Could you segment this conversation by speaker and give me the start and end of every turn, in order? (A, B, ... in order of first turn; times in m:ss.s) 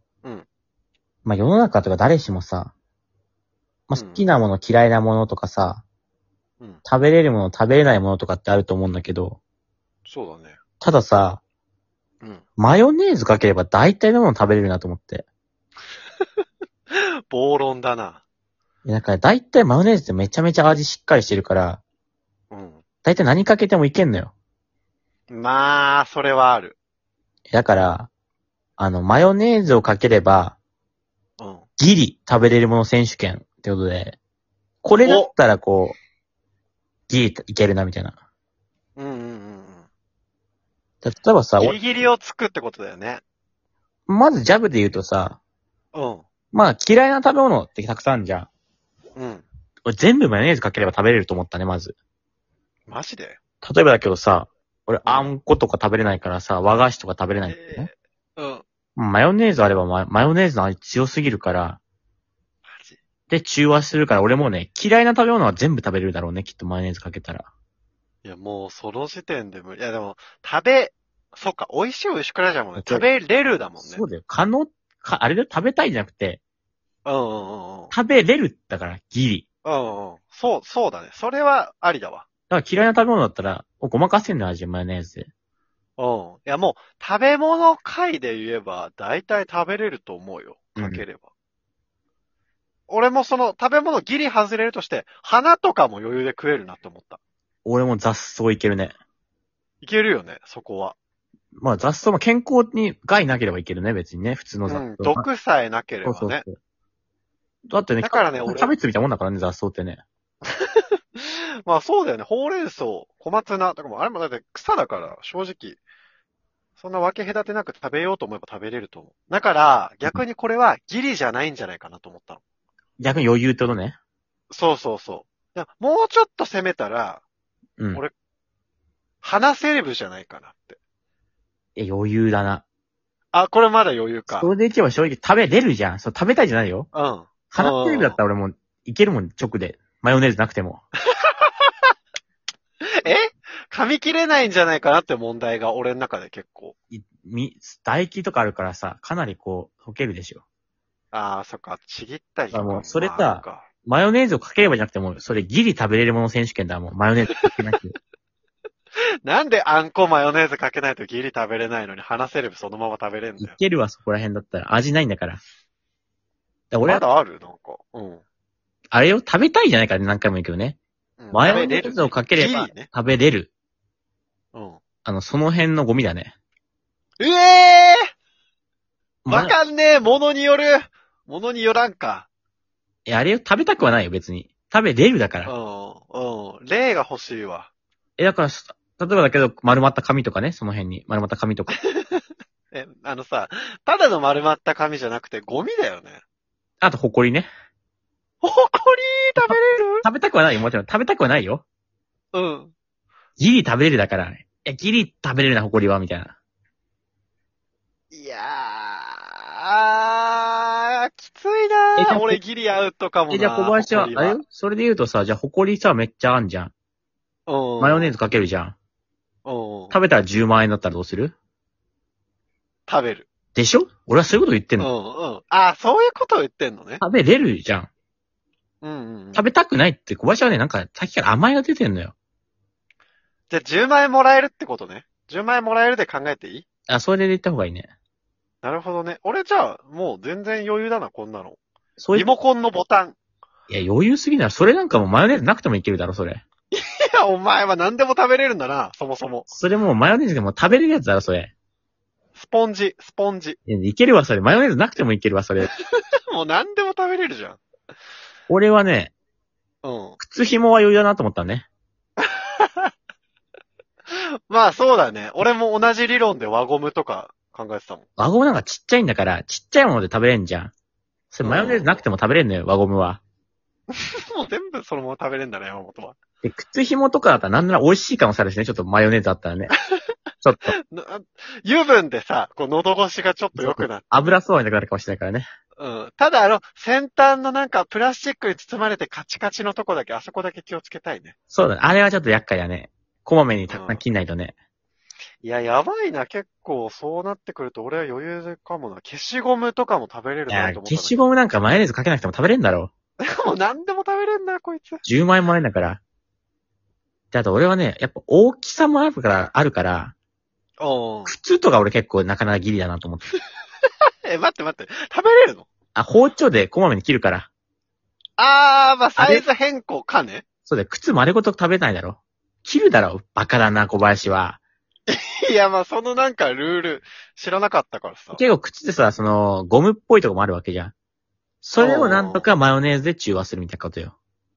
0:01.2-0:02.7 A
0:03.9-0:05.8 A
0:04.0-0:04.3 B
0:06.8-0:09.4 A
0:10.1-0:10.6 B
0:10.8-0:11.4 A
0:12.6-0:15.2 A
0:16.9-0:18.2 B
0:18.8-0:21.8 A
0:22.5-0:22.8 B
0:23.0-0:24.3 A
0:25.3-0:26.8 B
0:27.5-0:28.1 A
0:28.8-0:30.6 A
0:31.4-0:31.7 B
0:31.8-0:34.2 A
0:34.8-0:36.0 A
0:35.0-0:35.3 B
0:37.1-0:38.2 A
0:39.0-0:39.9 B
0:41.0-0:41.8 A
0:41.6-0:43.2 B
0:44.1-0:45.4 A
0:45.9-0:46.3 B
0:46.5-0:48.5 A
0:49.2-0:49.4 B
0:49.9-0:52.0 A
0:52.9-0:53.4 B
0:53.6-0:57.9 A
0:55.0-0:55.3 B
0:57.4-0:58.6 B
0:59.0-1:01.8 A
1:02.6-1:03.0 B
1:03.3-1:07.5 A
1:08.2-1:14.0 B
1:12.8-1:13.1 A
1:13.8-1:16.4 A
1:17.0-1:17.9 B
1:17.9-1:19.4 A
1:19.6-1:22.3 B
1:22.5-1:25.3 A
1:26.0-1:31.3 B
1:30.8-1:31.0 A
1:32.9-1:37.2 B
1:37.6-1:39.0 A
1:39.8-1:41.0 B
1:41.6-1:45.3 A
1:44.7-1:46.4 B
1:46.0-1:46.6 A
1:47.7-1:50.0 A
1:48.0-1:48.7 B
1:50.5-1:55.8 B
1:56.8-2:02.4 B
2:03.0-2:04.0 A
2:04.5-2:07.2 B
2:09.2-2:10.8 B
2:11.8-2:12.6 A
2:13.3-2:14.5 B
2:14.3-2:16.9 A
2:16.9-2:18.2 B
2:17.5-2:20.8 A
2:21.1-2:21.9 B
2:23.0-2:26.8 B
2:26.9-2:30.4 A
2:31.1-2:33.7 B
2:32.5-2:38.0 A
2:39.2-2:43.6 B
2:43.4-2:45.4 A
2:46.7-2:47.0 A
2:46.8-2:48.2 B
2:48.9-2:50.8 A
2:51.2-2:52.9 B
2:51.3-2:53.5 A
2:54.5-2:54.8 B
2:55.0-2:56.3 A
2:57.2-2:58.1 B
2:59.2-2:59.5 A
2:59.3-3:02.3 B
3:03.1-3:05.5 A
3:05.5-3:07.7 B
3:08.2-3:11.8 A
3:11.8-3:16.2 B
3:16.8-3:17.5 A
3:18.4-3:20.1 B
3:19.4-3:21.6 A
3:22.3-3:22.7 B
3:23.4-3:26.4 A
3:28.1-3:34.4 B
3:32.0-3:32.4 A
3:33.3-3:36.7 A
3:37.5-3:38.2 B
3:37.8-3:38.8 A
3:39.4-3:40.0 B
3:39.9-3:41.3 A
3:42.9-3:43.3 B
3:43.5-3:44.9 A
3:44.8-3:47.0 B
3:47.0-3:47.9 A
3:48.8-3:49.4 B
3:49.3-3:52.1 A
3:53.5-3:56.7 B
3:56.9-3:57.9 A
3:58.6-4:01.6 B
4:02.0-4:02.3 A
4:02.1-4:03.2 B
4:03.7-4:06.4 A
4:06.7-4:09.5 B
4:09.5-4:11.5 A
4:12.4-4:13.6 B
4:13.7-4:15.7 A
4:15.7-4:17.6 B
4:18.5-4:19.1 A
4:19.8-4:20.2 B
4:20.2-4:21.7 A
4:22.2-4:22.9 B
4:24.1-4:28.1 B
4:28.2-4:30.7 A
4:31.3-4:33.2 A
4:31.4-4:32.0 B
4:33.9-4:36.2 B
4:36.4-4:39.7 A
4:39.7-4:40.0 B
4:40.4-4:40.8 A
4:40.9-4:44.4 B
4:43.6-4:45.5 A
4:45.8-4:51.4 B
4:51.5-4:54.6 A
4:53.7-4:54.0 B
4:55.4-5:01.2 B
5:00.5-5:02.9 A
5:03.2-5:05.0 B
5:05.0-5:06.0 A
5:07.3-5:10.1 A
5:10.8-5:11.3 B
5:11.3-5:13.3 A
5:14.2-5:15.7 B
5:16.0-5:17.5 A
5:18.4-5:20.4 B
5:19.2-5:19.4 A
5:20.6-5:24.6 A
5:25.1-5:28.4 B
5:28.4-5:30.9 A
5:31.6-5:34.1 A
5:31.8-5:32.5 B